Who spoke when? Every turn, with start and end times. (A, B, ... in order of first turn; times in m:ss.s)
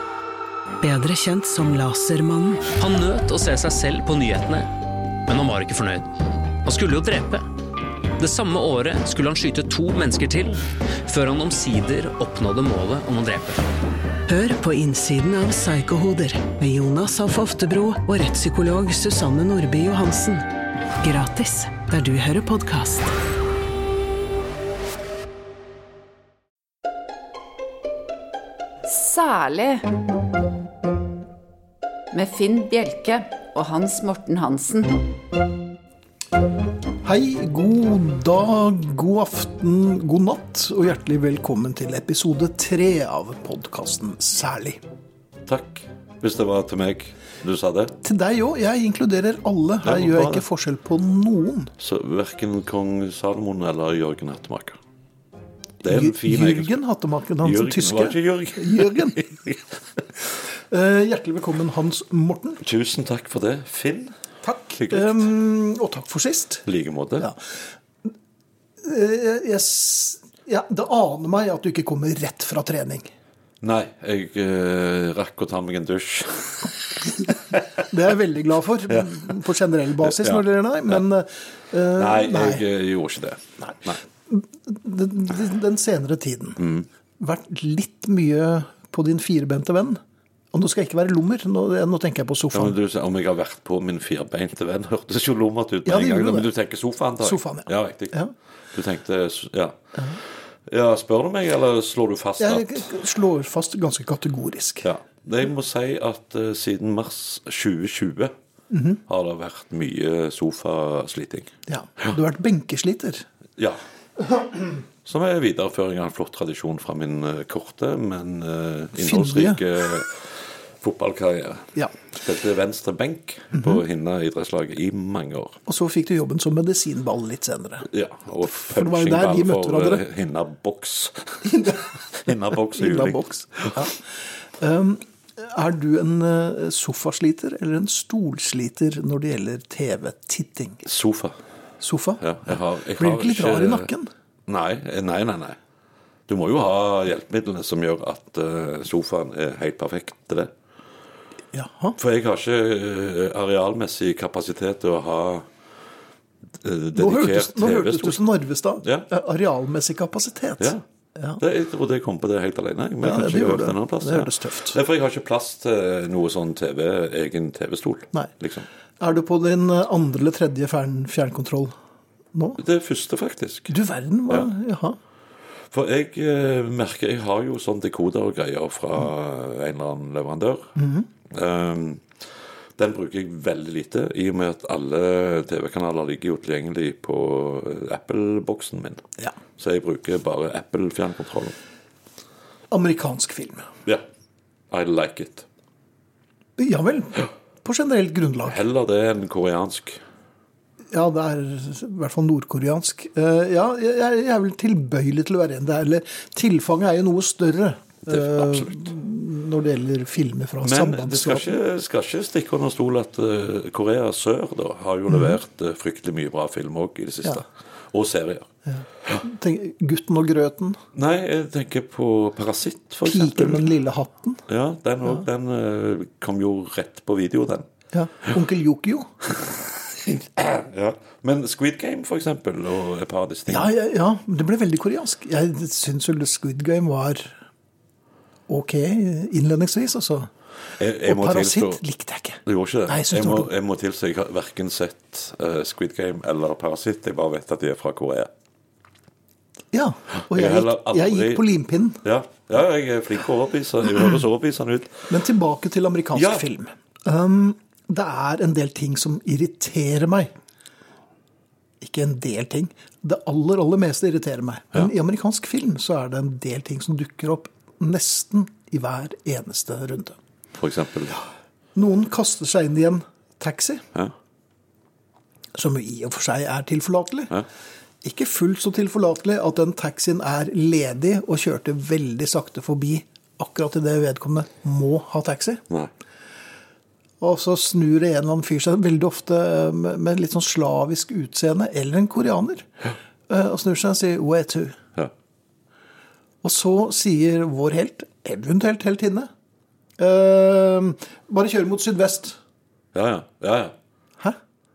0:00.8-0:02.7 A
0:02.7-0:04.7 B
0:05.2-0:06.1 B
0:06.6-0:07.5 B
0:08.2-0:13.6 B
0:14.3-0:20.4 A
0:21.0-0:23.1 A
0:28.8-0:29.9 C
0:32.1-0:35.1 C
0:37.0-0:44.8 D
0:45.4-0:47.9 E
0:48.0-0:51.7 D
0:49.8-0:50.4 E
0:51.8-0:54.8 E
0:55.8-0:56.8 E
0:55.8-0:59.2 D
0:57.4-0:59.6 E
1:00.5-1:02.6 D
1:02.6-1:04.2 E
1:04.4-1:06.6 D
1:04.8-1:05.3 E
1:06.6-1:07.3 E
1:08.8-1:13.1 D
1:13.6-1:17.6 E
1:17.8-1:22.6 D
1:18.9-1:19.2 E
1:20.0-1:21.0 E
1:21.9-1:24.0 E
1:24.3-1:26.7 D
1:26.6-1:26.8 E
1:27.2-1:30.0 D
1:30.5-1:32.8 D
1:32.5-1:38.2 E
1:35.8-1:36.5 D
1:37.2-1:38.3 D
1:38.7-1:39.8 E
1:40.7-1:42.9 E
1:42.4-1:44.9 D
1:44.8-1:48.3 E
1:48.7-1:49.0 D
1:49.1-1:51.5 E
1:51.7-1:53.2 D
1:55.0-2:05.6 E
1:58.9-1:59.6 D
2:05.6-2:07.9 D
2:07.9-2:13.8 E
2:08.4-2:10.0 D
2:11.4-2:11.8 D
2:12.7-2:20.8 D
2:20.8-2:21.4 E
2:21.8-2:24.1 D
2:22.2-2:23.9 E
2:24.5-2:25.6 E
2:26.3-2:30.5 E
2:31.5-2:32.0 D
2:32.0-2:35.5 E
2:36.6-2:38.2 E
2:36.9-2:41.4 D
2:41.4-2:48.6 E
2:43.0-2:44.8 D
2:49.0-2:51.7 D
2:52.3-2:52.6 D
2:52.6-2:53.7 E
2:53.7-2:55.0 D
2:55.7-3:00.7 E
3:00.8-3:01.1 D
3:01.3-3:02.0 E
3:02.8-3:09.0 E
3:09.6-3:11.6 E
3:12.7-3:13.7 D
3:14.7-3:15.4 E
3:16.6-3:18.6 D
3:18.4-3:20.0 E
3:20.9-3:31.5 D
3:28.0-3:28.8 E
3:30.6-3:38.5 E
3:35.1-3:35.4 D
3:38.7-3:40.8 D
3:40.9-3:43.7 E
3:43.0-3:44.4 D
3:44.5-3:47.7 E
3:47.9-3:49.1 D
3:49.4-3:53.7 E
3:53.5-3:57.4 D
3:58.5-4:00.3 D
4:00.8-4:01.8 E
4:01.0-4:03.5 D
4:02.4-4:08.3 E
4:09.7-4:12.0 D
4:10.3-4:11.5 E
4:12.0-4:15.1 E
4:15.1-4:20.3 D
4:16.1-4:16.4 E
4:21.8-4:30.2 D
4:30.6-4:31.2 E
4:31.7-4:33.8 D
4:35.5-4:37.3 D
4:38.0-4:45.6 D
4:47.2-4:52.6 D
4:53.3-4:54.8 D
4:56.4-4:59.3 D
5:00.0-5:02.4 D
5:02.9-5:03.7 E